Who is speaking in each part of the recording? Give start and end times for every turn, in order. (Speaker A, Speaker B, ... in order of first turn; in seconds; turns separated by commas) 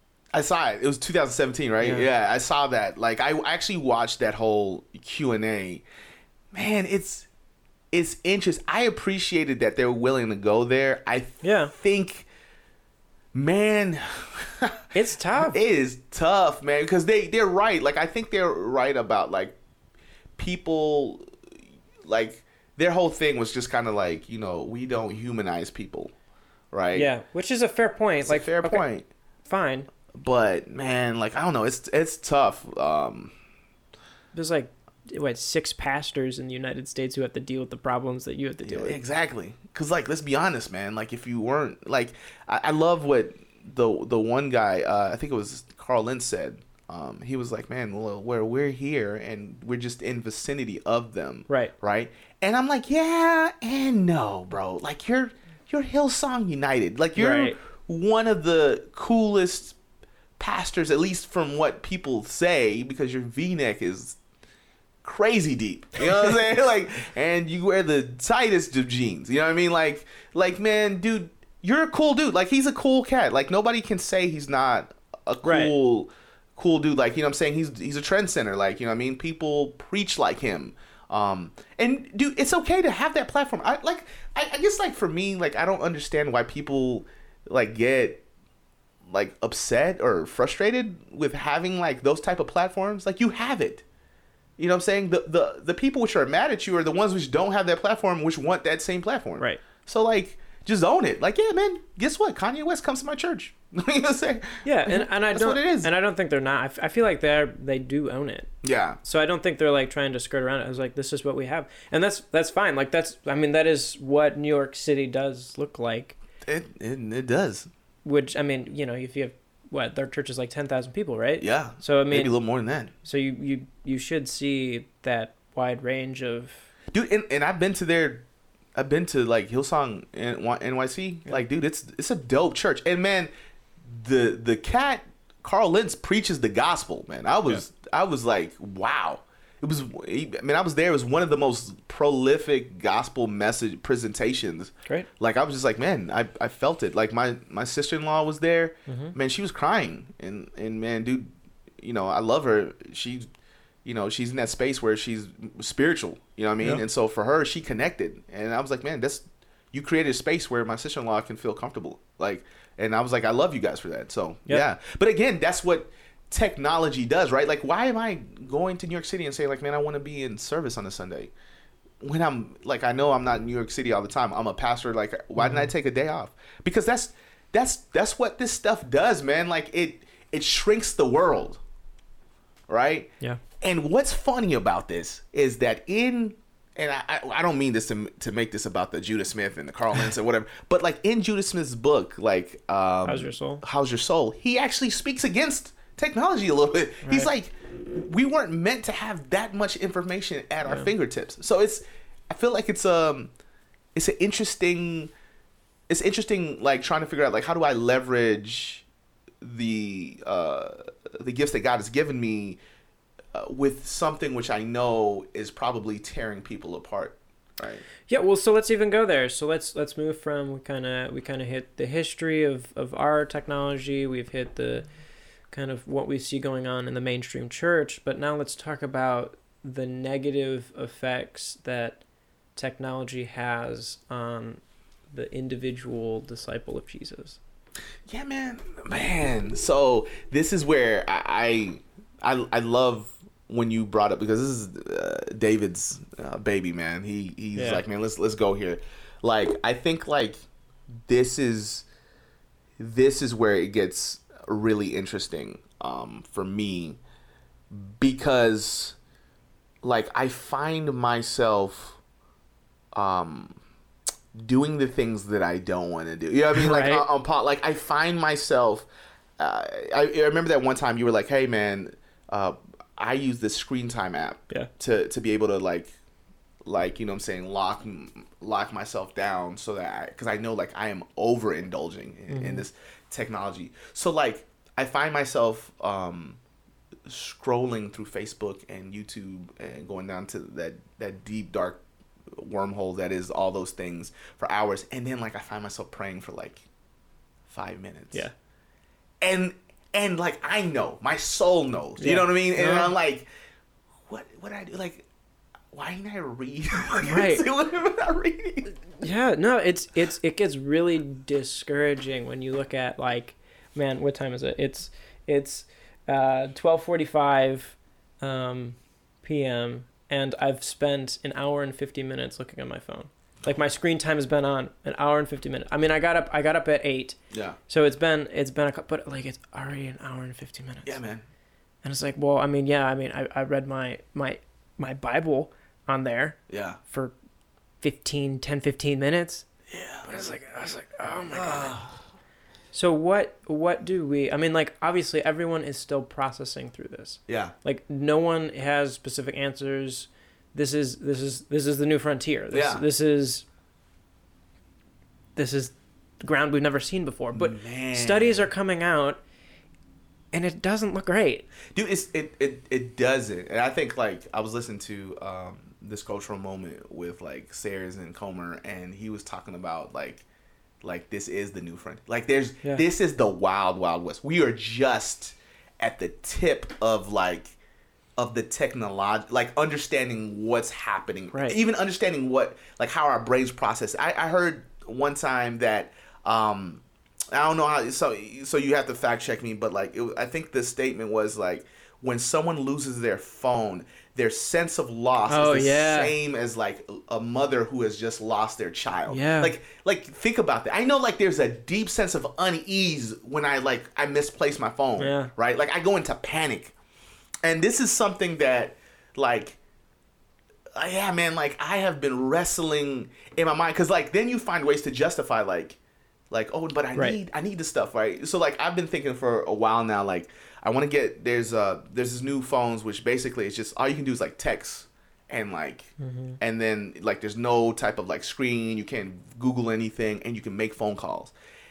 Speaker A: 0.3-5.8, Speaker B: 1.8-2.0, Speaker A: 6.5-7.3, Speaker A: 7.9-12.3, Speaker B: 11.4-11.7, Speaker A: 13.3-14.8, Speaker B: 14.9-15.6, Speaker A: 15.3-19.5, Speaker A: 20.4-21.3, Speaker A: 22.0-26.1, Speaker A: 26.7-27.1, Speaker B: 26.9-28.8, Speaker A: 28.2-29.1, Speaker B: 29.4-29.9, Speaker A: 30.1-33.3, Speaker B: 34.3-39.0, Speaker A: 38.6-59.8, Speaker B: 57.1-57.5, Speaker A: 60.4-64.2, Speaker A: 65.0-88.2, Speaker B: 75.4-75.7, Speaker A: 89.1-93.8, Speaker A: 94.6-105.9, Speaker B: 104.6-108.5, Speaker A: 108.6-109.0, Speaker B: 109.0-116.1, Speaker A: 116.5-117.7, Speaker B: 118.0-122.3, Speaker A: 121.4-122.9, Speaker B: 123.0-126.7, Speaker A: 126.9-128.2, Speaker A: 128.8-133.3, Speaker A: 133.9-153.2, Speaker B: 148.9-149.1, Speaker A: 153.8-171.3, Speaker A: 172.0-181.6, Speaker B: 175.4-175.7, Speaker A: 182.7-203.3, Speaker B: 193.1-193.6, Speaker B: 200.6-200.9, Speaker A: 203.9-205.1, Speaker A: 205.9-208.8, Speaker A: 209.4-212.6, Speaker A: 213.3-217.8, Speaker B: 218.1-224.9, Speaker B: 225.5-232.0, Speaker B: 232.6-237.4, Speaker A: 238.1-250.4, Speaker B: 247.5-247.8, Speaker A: 251.1-251.8, Speaker A: 252.8-257.0, Speaker A: 257.7-259.0, Speaker A: 259.8-262.0, Speaker A: 262.9-263.6, Speaker A: 264.3-268.9, Speaker B: 266.5-267.1, Speaker A: 269.4-275.9, Speaker A: 276.6-286.4, Speaker B: 282.3-282.6, Speaker A: 287.1-291.8, Speaker A: 292.4-296.6, Speaker A: 297.5-298.3, Speaker A: 299.2-303.3, Speaker B: 302.0-302.9, Speaker A: 304.1-305.1, Speaker A: 305.7-308.8, Speaker B: 307.0-307.4, Speaker B: 308.9-327.2, Speaker A: 327.3-327.6, Speaker B: 327.7-331.0, Speaker A: 330.9-331.2, Speaker B: 331.8-337.1, Speaker A: 336.5-336.8, Speaker B: 337.8-339.4, Speaker A: 339.7-340.3, Speaker B: 340.0-341.8, Speaker A: 341.3-341.9, Speaker B: 342.7-353.4, Speaker A: 347.3-347.5, Speaker A: 352.5-352.8, Speaker B: 355.4-359.2, Speaker A: 357.3-358.5, Speaker B: 360.3-361.4, Speaker A: 361.7-370.2, Speaker A: 370.8-377.6, Speaker A: 378.2-406.7, Speaker B: 395.3-396.1, Speaker B: 399.1-399.5, Speaker B: 405.0-405.3, Speaker A: 407.4-409.6, Speaker A: 410.8-415.8, Speaker A: 416.3-431.3, Speaker B: 426.0-426.4